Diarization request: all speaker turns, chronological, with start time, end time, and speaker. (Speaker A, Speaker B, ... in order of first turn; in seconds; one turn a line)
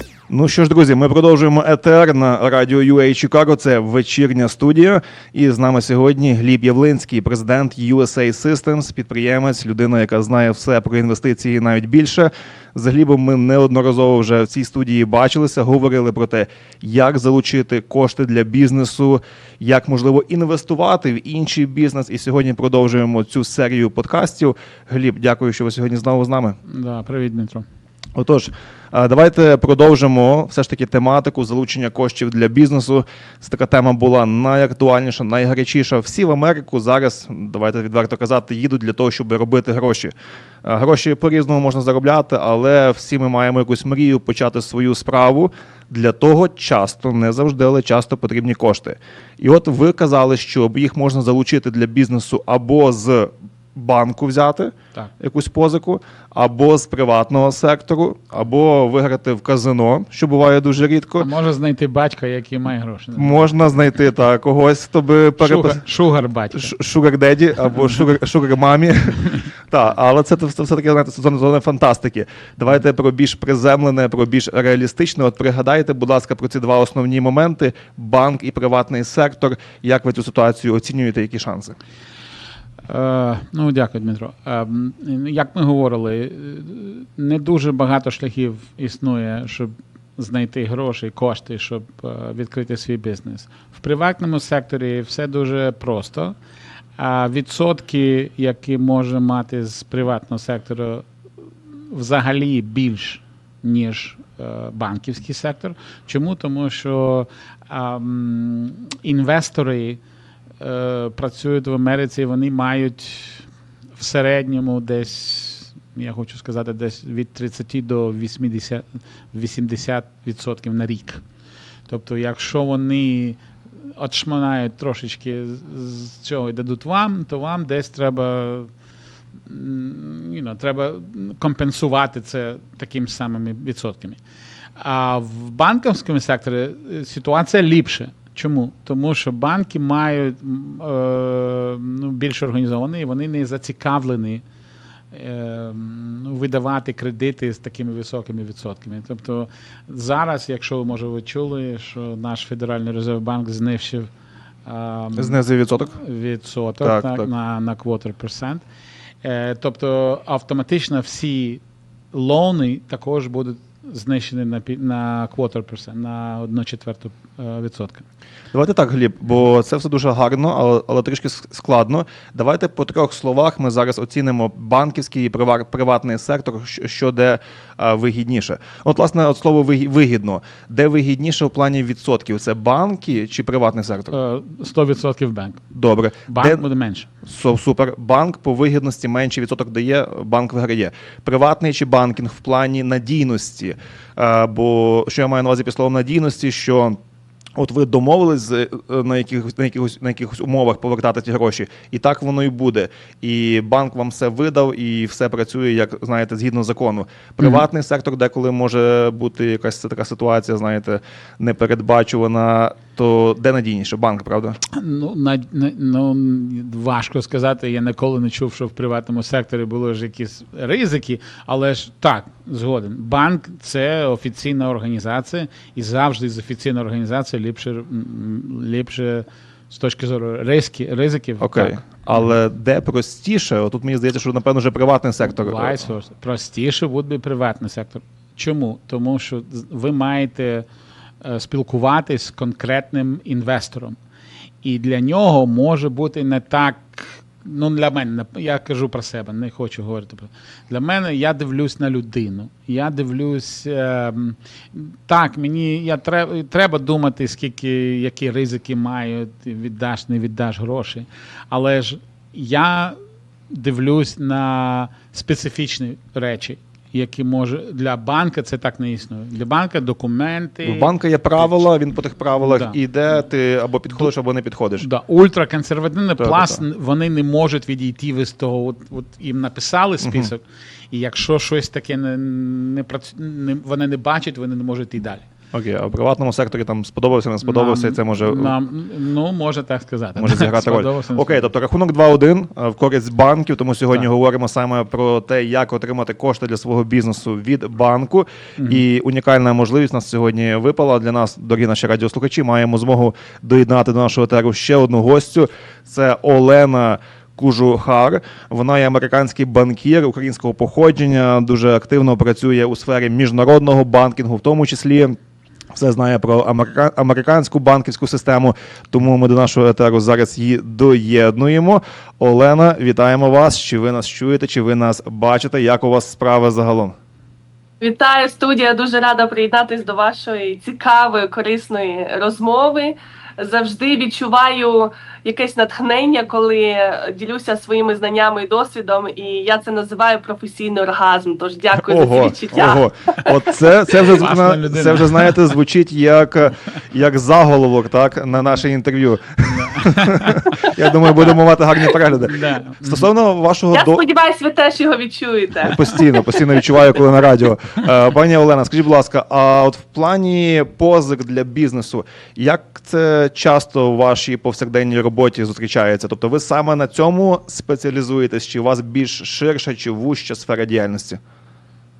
Speaker A: 0.3-26.6
Speaker B: 26.7-27.6
Speaker A: 28.1-61.3
Speaker B: 61.2-63.5
Speaker A: 63.1-65.8
Speaker B: 65.4-66.7
Speaker A: 66.5-81.8
Speaker B: 82.9-96.3
Speaker B: 97.0-101.0
Speaker B: 101.9-110.0
Speaker B: 110.6-121.2
Speaker B: 121.9-128.7
Speaker B: 129.5-134.2
Speaker B: 134.8-144.4
Speaker B: 145.1-154.1
Speaker B: 154.7-155.4
Speaker A: 155.2-156.0
Speaker B: 155.9-158.6
Speaker A: 156.8-157.3
Speaker B: 159.2-161.6
Speaker B: 162.1-168.0
Speaker A: 168.5-184.2
Speaker B: 184.1-185.6
Speaker A: 185.7-186.6
Speaker B: 186.3-187.1
Speaker A: 187.2-197.0
Speaker A: 197.6-214.6
Speaker B: 214.7-232.2
Speaker A: 231.4-235.8
Speaker B: 235.4-240.7
Speaker B: 241.2-244.0
Speaker B: 244.6-263.0
Speaker B: 263.5-271.6
Speaker A: 270.6-274.9
Speaker B: 272.4-272.8
Speaker B: 274.8-285.2
Speaker A: 276.2-276.6
Speaker A: 280.0-280.3
Speaker A: 285.5-288.5
Speaker B: 287.4-291.4
Speaker A: 290.2-315.1
Speaker B: 298.6-298.9
Speaker A: 315.7-326.9
Speaker C: 327.8-344.1
Speaker A: 341.8-354.0
Speaker B: 344.2-345.4
Speaker B: 349.5-350.7
Speaker B: 352.2-353.1
Speaker C: 353.7-356.6
Speaker A: 355.6-371.2